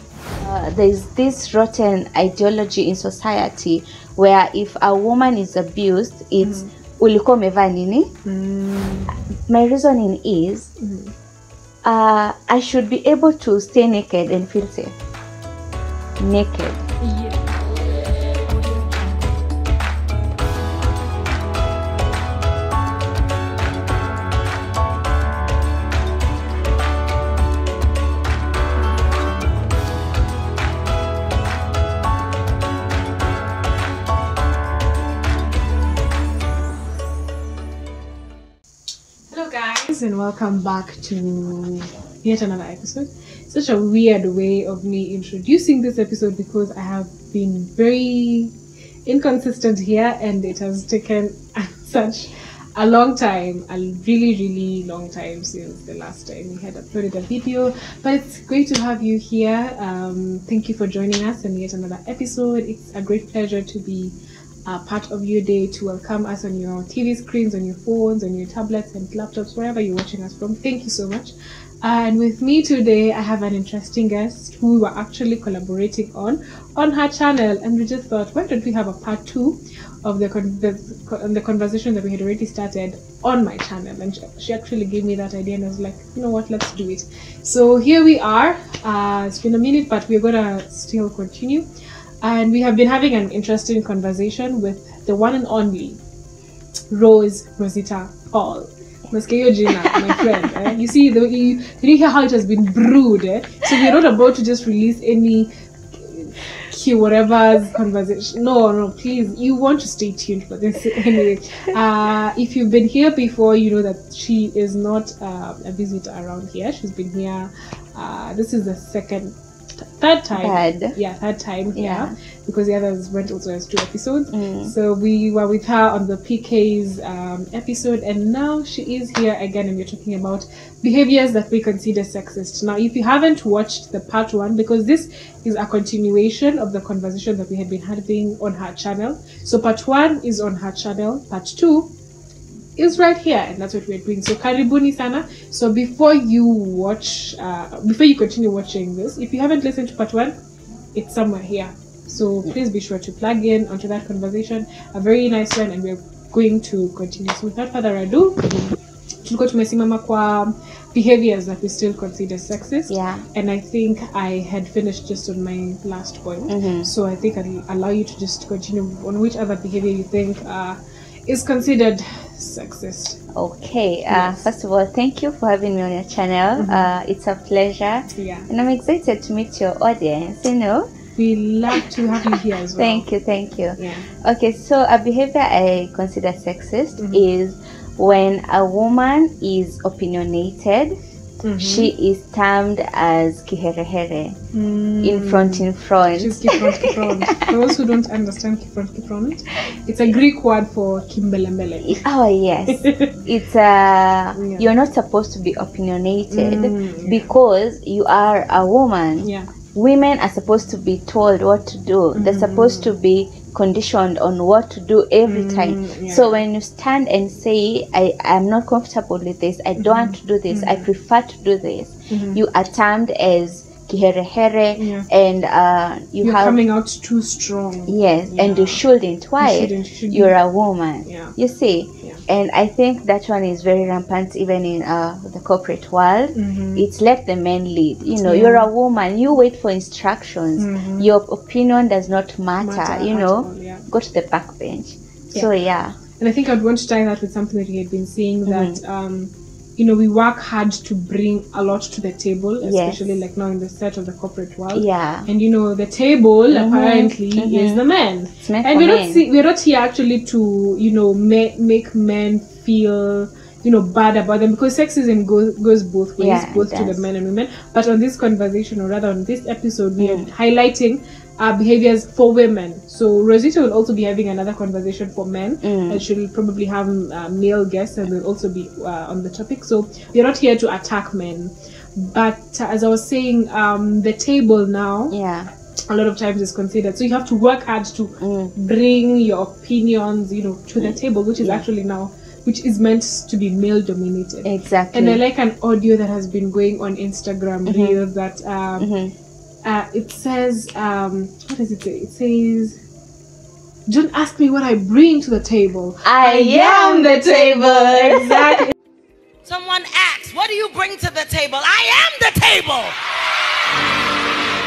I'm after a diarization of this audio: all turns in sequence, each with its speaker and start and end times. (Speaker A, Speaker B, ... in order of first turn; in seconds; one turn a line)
Speaker A: 0.4-8.1
Speaker B: 6.4-6.7
Speaker B: 8.2-9.2
Speaker A: 9.5-10.7
Speaker B: 10.8-11.1
Speaker A: 11.8-14.9
Speaker A: 16.2-16.9
Speaker B: 17.0-17.5
Speaker B: 39.3-48.5
Speaker B: 49.0-71.3
Speaker B: 71.8-91.7
Speaker B: 92.2-96.0
Speaker B: 96.9-141.9
Speaker A: 99.7-100.3
Speaker A: 120.3-121.0
Speaker A: 121.7-122.1
Speaker A: 124.3-124.7
Speaker B: 142.8-150.3
Speaker B: 150.9-173.2
Speaker A: 162.9-163.2
Speaker A: 166.5-166.9
Speaker A: 173.3-180.9
Speaker B: 174.1-174.5
Speaker B: 176.5-176.9
Speaker B: 178.1-178.5
Speaker B: 181.2-183.1
Speaker A: 181.7-190.9
Speaker B: 183.8-184.1
Speaker B: 187.0-187.3
Speaker B: 191.4-191.9
Speaker A: 191.6-194.4
Speaker B: 194.5-202.0
Speaker A: 195.0-197.8
Speaker A: 201.8-226.6
Speaker B: 202.7-203.2
Speaker B: 204.3-204.7
Speaker B: 206.3-207.3
Speaker B: 209.2-209.5
Speaker B: 212.1-212.9
Speaker B: 215.2-216.4
Speaker B: 219.8-220.9
Speaker B: 222.1-222.4
Speaker B: 224.8-225.1
Speaker B: 226.2-228.8
Speaker A: 227.9-246.0
Speaker B: 229.4-230.3
Speaker B: 231.0-231.3
Speaker B: 236.3-236.9
Speaker B: 238.2-238.7
Speaker B: 240.6-241.1
Speaker B: 242.6-243.9
Speaker B: 246.2-285.1
Speaker A: 248.4-248.8
Speaker A: 252.6-253.2
Speaker A: 254.7-255.3
Speaker A: 256.5-257.8
Speaker A: 258.4-259.2
Speaker A: 266.2-267.1
Speaker A: 270.0-270.3
Speaker A: 275.6-276.0
Speaker A: 285.1-285.5
Speaker B: 285.9-298.9
Speaker A: 288.2-288.5
Speaker A: 290.8-291.6
Speaker A: 294.4-295.2
Speaker A: 297.7-298.0
Speaker A: 298.8-299.1
Speaker B: 299.6-302.8
Speaker B: 303.9-308.7
Speaker A: 306.0-308.6
Speaker C: 309.4-312.9